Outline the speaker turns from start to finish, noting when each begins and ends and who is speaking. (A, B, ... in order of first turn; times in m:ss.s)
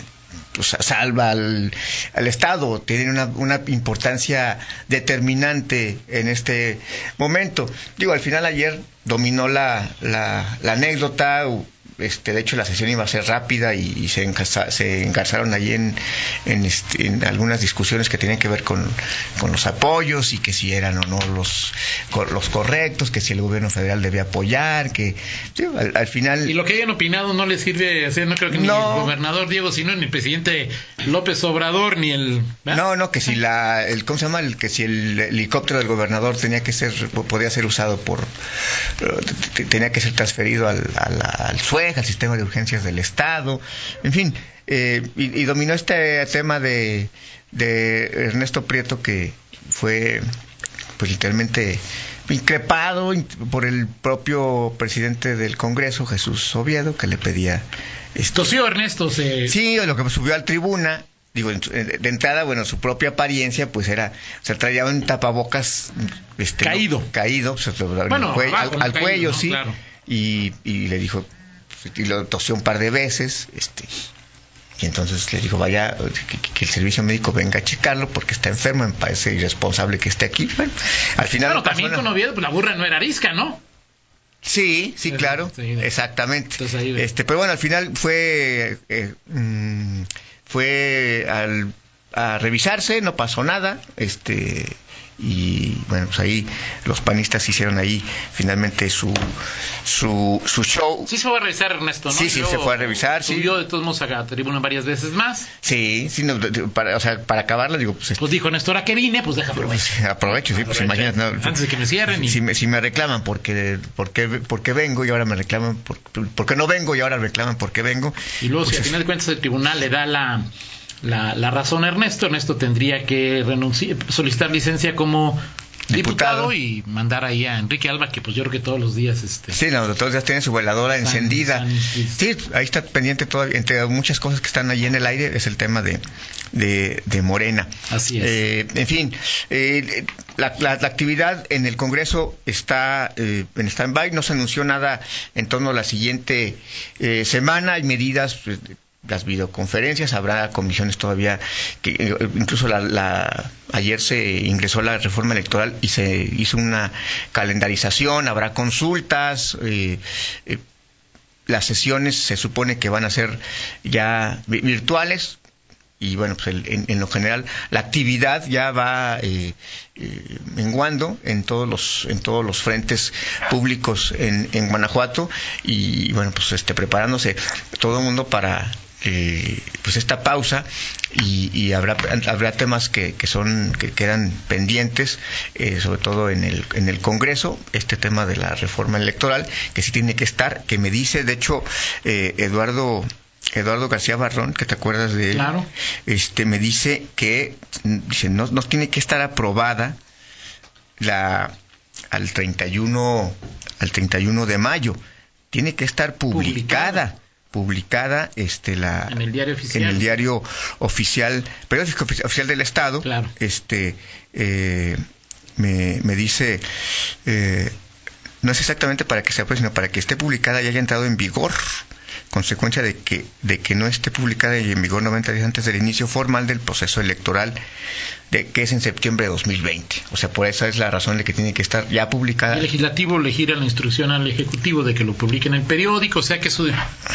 0:00.5-0:26.5 A
0:26.4-0:32.8 B
0:28.5-0:29.1 A
0:32.7-0:38.3 A
0:39.0-0:50.2 A
0:51.0-0:58.5 A
0:58.3-0:59.5 B
0:59.4-1:11.3 A
1:06.6-1:07.1 B
1:08.1-1:09.8 B
1:11.8-1:13.9 A
1:14.8-1:22.1 A
1:21.4-1:23.6 B
1:24.4-1:39.3 A
1:25.0-1:25.9 B
1:26.6-1:27.1 B
1:39.8-1:41.1 A
1:41.1-1:45.5 B
1:42.1-1:43.6 A
1:45.6-1:48.2 A
1:48.2-1:52.4 B
1:49.5-1:59.0 A
1:58.4-2:00.5 B
2:01.0-2:09.6 B
2:05.9-2:06.5 A
2:09.5-2:16.0 A
2:11.0-2:12.2 B
2:16.5-2:40.6 A
2:17.9-2:18.4 B
2:41.5-2:45.4 A
2:46.0-3:20.0 A
3:15.3-3:15.7 B
3:21.0-3:21.5 A
3:22.1-3:25.0 A
3:25.5-3:29.2 A
3:26.3-3:27.0 B
3:29.1-3:30.1 B
3:29.7-3:35.0 A
3:33.0-3:33.3 B
3:35.6-3:36.6 A
3:37.2-3:37.7 A
3:38.4-3:47.6 A
3:48.3-3:52.7 A
3:52.5-3:56.8 B